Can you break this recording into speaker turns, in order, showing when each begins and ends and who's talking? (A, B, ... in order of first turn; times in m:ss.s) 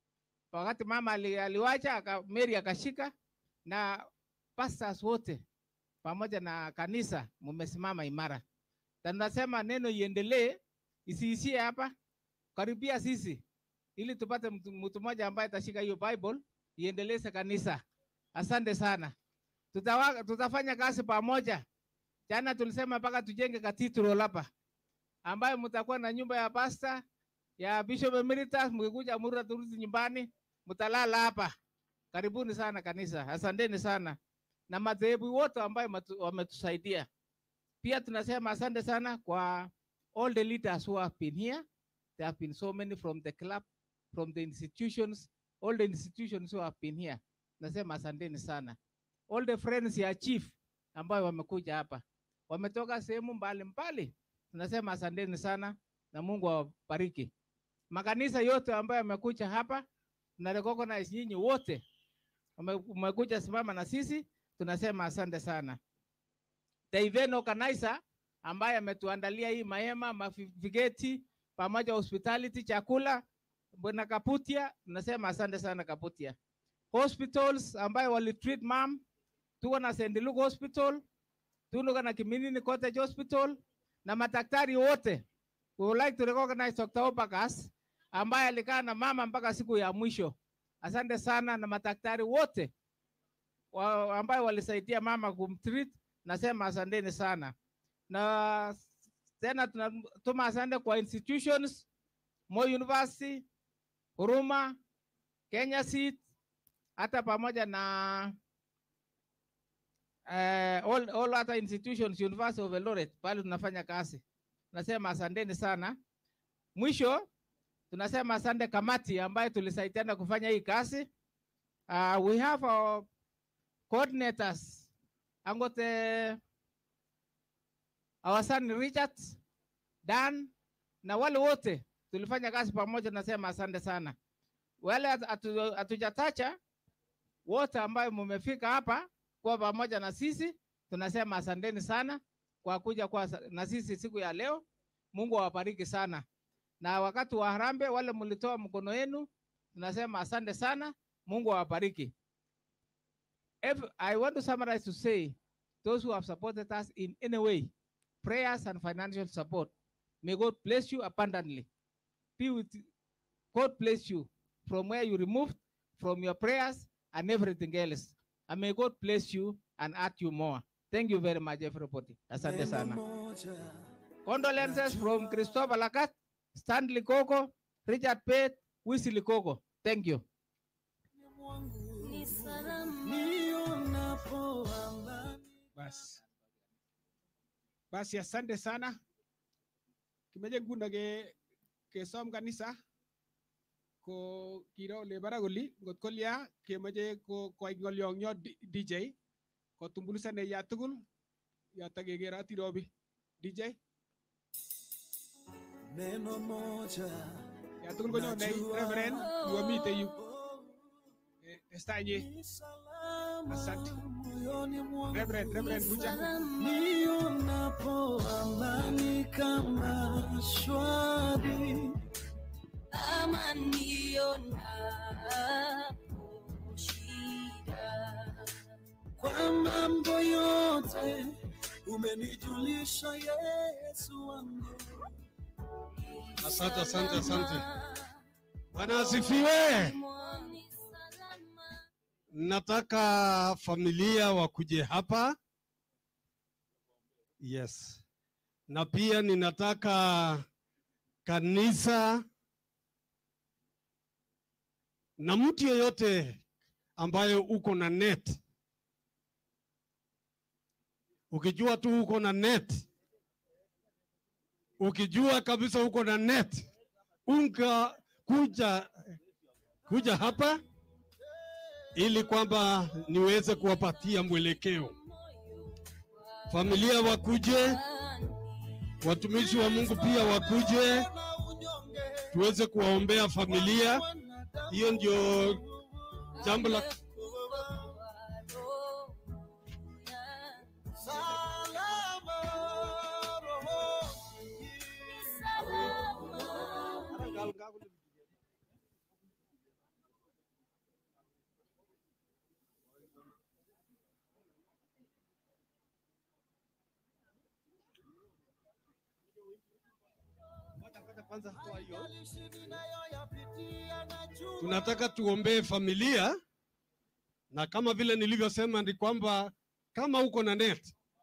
0:00.5-0:03.1 A
0:03.7-0:04.1 A
0:04.6-0:05.4 A
0:06.0-0:08.4 A
0:09.0-0:11.9 A
0:12.6-0:13.4 A
0:14.0-0:17.8 A
0:18.4-0:19.1 A
0:19.7-0:21.6 A
0:22.3-0:24.5 A
0:25.2-0:27.0 A
0:27.6-0:31.6 A
0:32.1-0:34.2 A
0:34.7-0:37.1 A
0:37.8-0:41.7 A
0:42.2-0:48.8 A
0:49.3-0:57.3 A
0:57.9-0:59.9 A
1:00.4-1:01.8 A
1:02.6-1:05.8 A
1:06.9-1:16.4 A
1:16.9-1:19.0 A
1:19.6-1:21.0 A
1:21.7-1:25.2 A
1:25.8-1:32.7 A
1:33.7-1:37.5 A
1:38.1-1:38.9 A
1:39.4-1:41.9 A
1:42.5-1:43.5 A
1:44.2-1:44.8 A
1:45.5-1:46.2 A
1:47.0-1:48.4 A
1:50.3-1:54.2 A
1:54.7-1:56.0 A
1:56.8-1:57.3 A
1:57.9-2:01.1 A
2:01.9-2:03.1 A
2:03.9-2:04.9 A
2:05.4-2:06.4 A
2:08.2-2:09.4 A
2:10.0-2:10.5 A
2:11.0-2:14.2 A
2:14.8-2:16.6 A
2:17.5-2:26.2 A
2:26.8-2:32.1 A
2:33.6-2:37.7 A
2:38.2-2:41.7 A
2:42.4-2:42.9 A
2:43.5-2:53.0 A
2:52.4-2:53.8 B
2:54.3-3:00.2 A
2:54.5-2:55.7 B
3:01.2-3:05.5 B
3:02.0-3:03.5 C
3:05.8-3:06.2 D
3:07.9-3:09.0 D
3:10.3-3:11.4 D
3:11.9-3:12.8 D
3:14.0-3:19.2 D
3:19.8-3:21.0 D
3:21.7-3:23.8 D
3:25.9-3:27.4 B
3:27.8-3:30.2 D
3:28.0-3:30.8 B
3:29.2-3:30.1 C
3:31.4-3:32.3 D
3:32.0-3:42.0 B
3:33.5-3:34.0 D
3:35.1-3:36.2 D
3:35.6-3:36.9 C
3:42.9-3:48.5 C
3:49.2-3:51.3 B
3:51.9-3:55.0 B
3:56.0-3:58.2 C
3:56.4-3:57.6 E
3:58.7-4:00.0 E
3:58.8-4:01.8 C
4:02.3-4:05.4 E
4:07.4-4:08.0 E
4:08.7-4:10.4 E
4:11.2-4:12.2 E
4:15.2-4:16.4 E
4:17.0-4:18.4 E
4:21.3-4:22.9 E
4:24.8-4:26.7 E
4:27.3-4:29.0 E
4:29.9-4:30.6 E
4:32.0-4:34.9 E
4:33.4-4:40.7 C
4:36.5-4:37.8 E
4:39.0-4:41.1 E
4:39.4-4:42.5 B
4:42.3-4:44.0 E
4:43.3-4:48.0 B
4:44.7-4:45.6 E
4:46.4-4:50.7 C
4:46.4-4:46.9 E
4:51.0-4:56.6 B
4:55.1-4:57.5 C
4:57.3-4:57.6 B
5:11.0-5:12.1 E
5:11.5-5:15.1 B
5:14.6-5:16.4 E
5:17.5-5:20.9 E